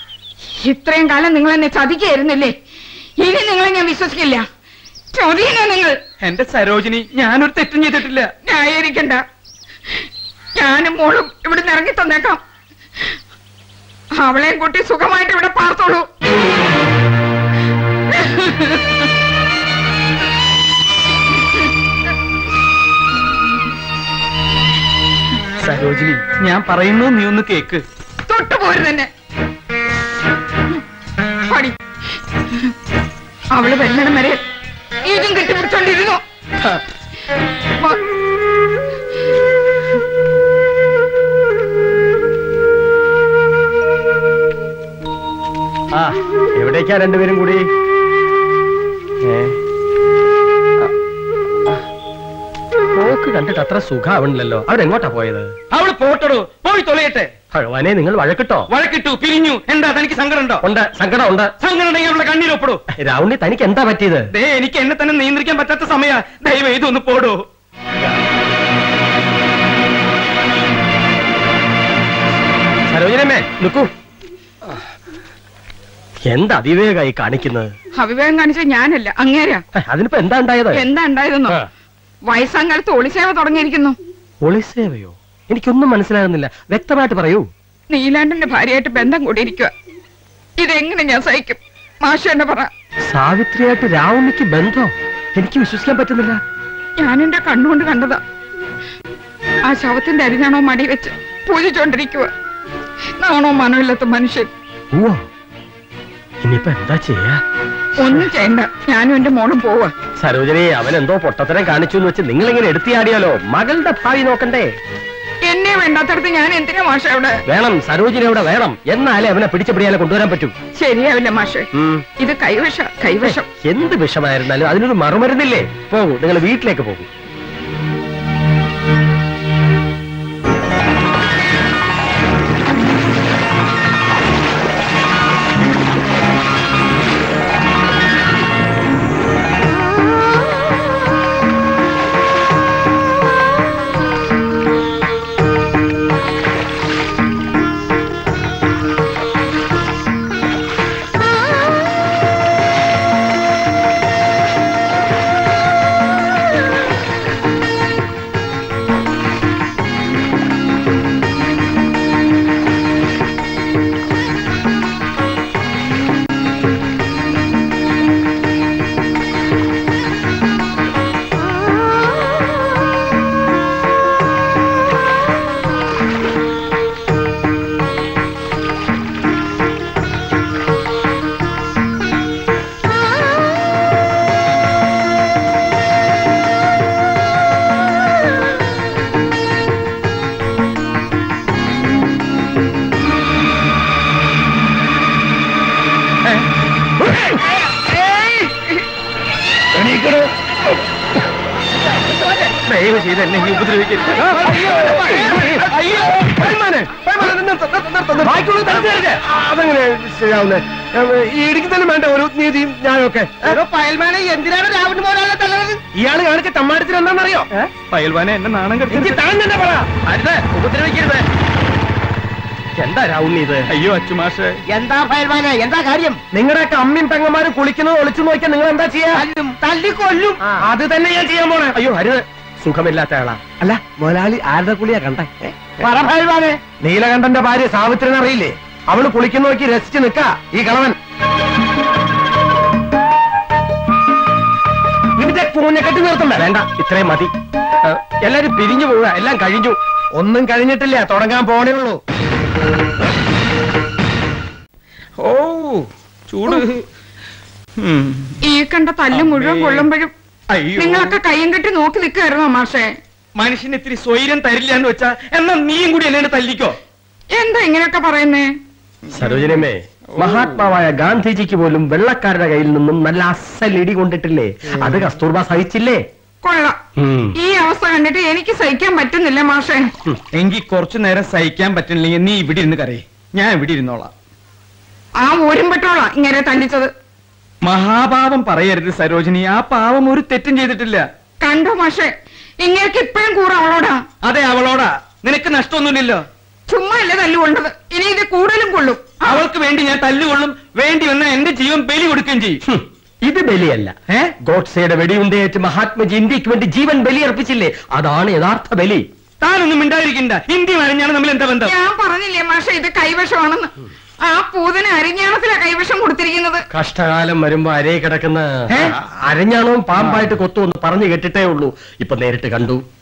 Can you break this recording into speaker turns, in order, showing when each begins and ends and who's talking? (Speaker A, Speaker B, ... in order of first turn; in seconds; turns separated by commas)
Speaker A: 0.6-2.5, Speaker A: 3.2-4.5, Speaker A: 5.1-6.0, Speaker B: 6.2-8.3, Speaker A: 8.4-9.2, Speaker A: 10.6-12.4, Speaker A: 14.2-16.1, Speaker A: 18.1-18.9, Speaker B: 25.6-27.8, Speaker A: 28.3-29.1, Speaker A: 31.5-31.7, Speaker A: 33.5-34.4, Speaker A: 35.0-36.2, Speaker C: 45.9-47.6, Speaker C: 49.2-49.5, Speaker C: 52.9-55.5, Speaker B: 55.7-57.3, Speaker C: 57.5-58.7, Speaker B: 58.7-60.6, Speaker C: 60.6-61.5, Speaker B: 61.6-62.8, Speaker C: 63.0-64.2, Speaker B: 64.3-67.4, Speaker C: 72.9-73.9, Speaker C: 76.3-77.7, Speaker A: 78.0-79.6, Speaker C: 79.8-80.8, Speaker A: 80.7-81.5, Speaker A: 82.3-84.0, Speaker C: 84.4-87.4, Speaker A: 87.9-89.7, Speaker A: 90.6-92.7, Speaker C: 93.1-96.4, Speaker A: 97.0-98.2, Speaker A: 99.7-102.3, Speaker A: 103.2-104.5, Speaker C: 104.9-105.2, Speaker C: 106.4-107.4, Speaker A: 108.0-109.9, Speaker C: 110.2-114.7, Speaker A: 115.5-117.4, Speaker C: 117.5-120.5, Speaker A: 120.8-121.7, Speaker C: 121.8-122.0, Speaker A: 122.2-123.5, Speaker C: 123.2-127.1, Speaker B: 202.7-204.3, Speaker D: 204.1-213.6, Speaker E: 213.4-215.8, Speaker D: 215.9-217.5, Speaker B: 217.9-219.2, Speaker D: 218.9-220.0, Speaker C: 222.8-223.7, Speaker B: 223.7-224.6, Speaker E: 224.7-226.2, Speaker D: 226.3-229.2, Speaker E: 229.1-230.6, Speaker D: 230.7-231.7, Speaker C: 231.7-233.4, Speaker D: 233.6-235.3, Speaker E: 235.8-236.6, Speaker D: 236.8-240.9, Speaker D: 245.2-246.5, Speaker C: 246.4-247.3, Speaker C: 247.9-249.8, Speaker D: 250.2-252.0, Speaker B: 255.2-256.8, Speaker B: 257.8-258.3, Speaker A: 258.4-260.1, Speaker B: 259.1-259.9, Speaker B: 260.5-261.1, Speaker A: 260.8-262.9, Speaker B: 263.4-266.8, Speaker A: 267.3-268.5, Speaker C: 269.1-276.0, Speaker A: 276.4-276.8, Speaker C: 277.0-277.3, Speaker A: 277.3-279.9, Speaker B: 280.3-284.1, Speaker A: 285.2-286.9, Speaker B: 287.6-291.0, Speaker A: 291.4-292.1, Speaker A: 292.6-294.0, Speaker B: 294.2-296.2, Speaker A: 296.7-299.4, Speaker B: 299.2-302.6, Speaker C: 302.7-309.0, Speaker B: 309.4-311.7, Speaker A: 311.6-313.7, Speaker A: 314.2-316.6, Speaker C: 316.7-322.8, Speaker B: 318.7-318.9